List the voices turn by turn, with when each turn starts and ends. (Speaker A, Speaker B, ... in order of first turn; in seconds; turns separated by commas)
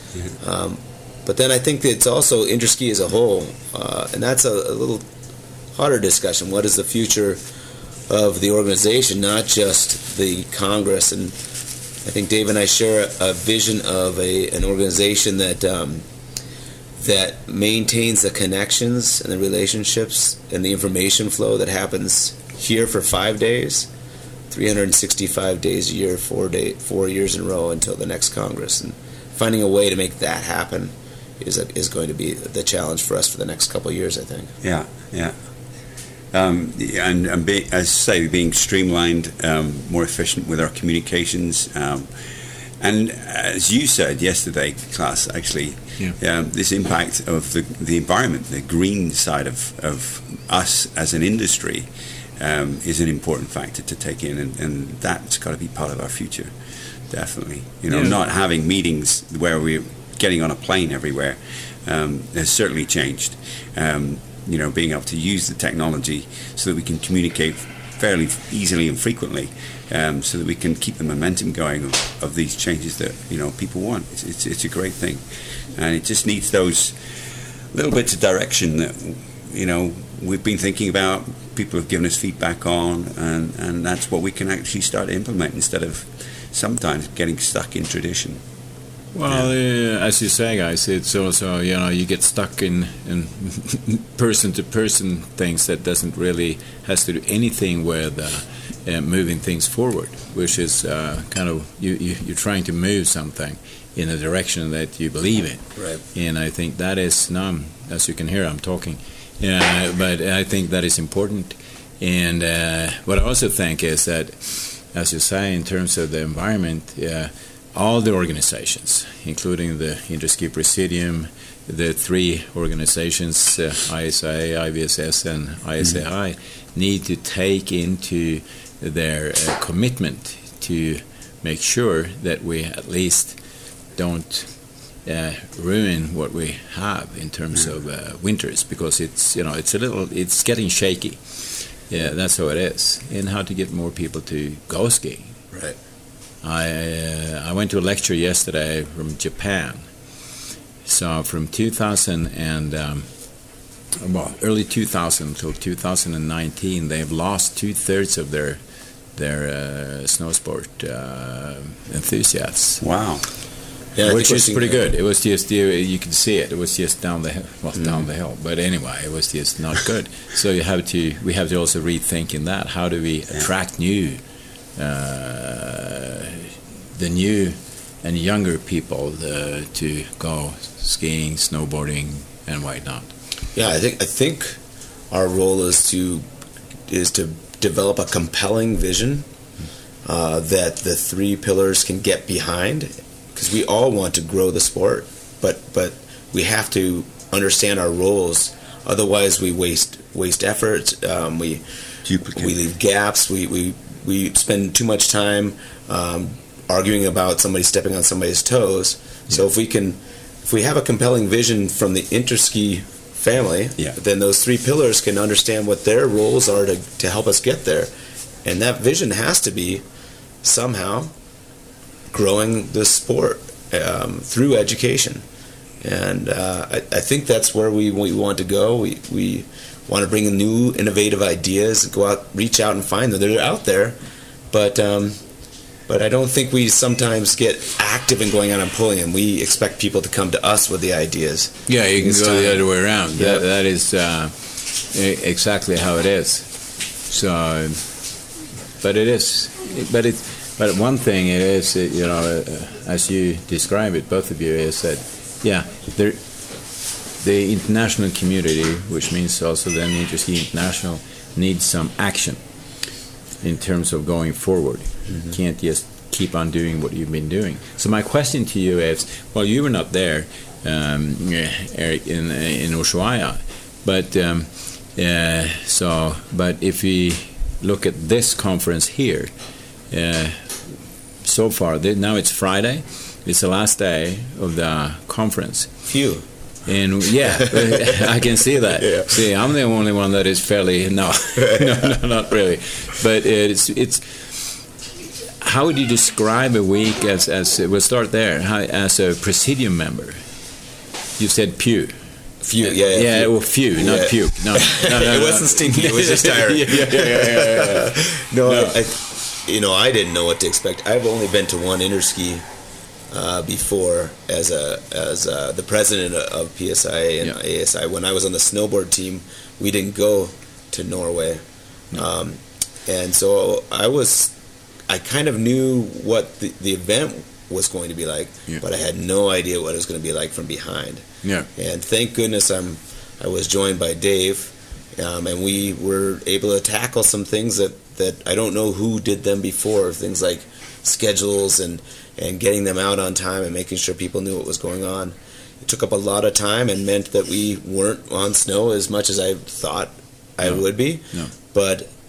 Speaker A: 0.4-5.0, Speaker A: 5.7-7.4, Speaker A: 8.1-11.4, Speaker A: 12.0-16.0, Speaker A: 17.0-23.9, Speaker A: 24.5-34.5, Speaker B: 34.6-35.5, Speaker B: 36.3-88.4, Speaker C: 57.9-58.2, Speaker C: 89.1-133.4, Speaker C: 133.9-145.4, Speaker A: 145.5-145.8, Speaker C: 146.4-149.9, Speaker C: 150.8-153.1, Speaker C: 154.0-158.6, Speaker C: 159.1-162.8, Speaker B: 162.8-163.3, Speaker A: 163.9-164.8, Speaker C: 164.0-174.2, Speaker C: 174.8-183.1, Speaker A: 183.5-184.6, Speaker A: 185.1-186.2, Speaker A: 186.9-189.2, Speaker A: 190.0-201.6, Speaker B: 202.1-202.6, Speaker A: 202.3-217.9, Speaker A: 218.4-219.8, Speaker A: 220.4-221.1, Speaker A: 222.1-225.2, Speaker A: 225.8-233.9, Speaker A: 234.5-235.2, Speaker A: 235.9-243.4, Speaker C: 241.7-248.1, Speaker C: 248.8-262.4, Speaker C: 263.4-279.3, Speaker C: 279.9-285.8, Speaker A: 285.9-286.2, Speaker C: 286.6-294.7, Speaker A: 287.5-288.1, Speaker A: 288.8-289.3, Speaker A: 291.4-291.9, Speaker C: 295.4-300.2, Speaker C: 301.2-301.9, Speaker A: 302.4-312.4, Speaker C: 302.6-308.8, Speaker A: 313.1-324.3, Speaker A: 324.9-351.9, Speaker C: 331.2-331.5, Speaker C: 350.4-351.3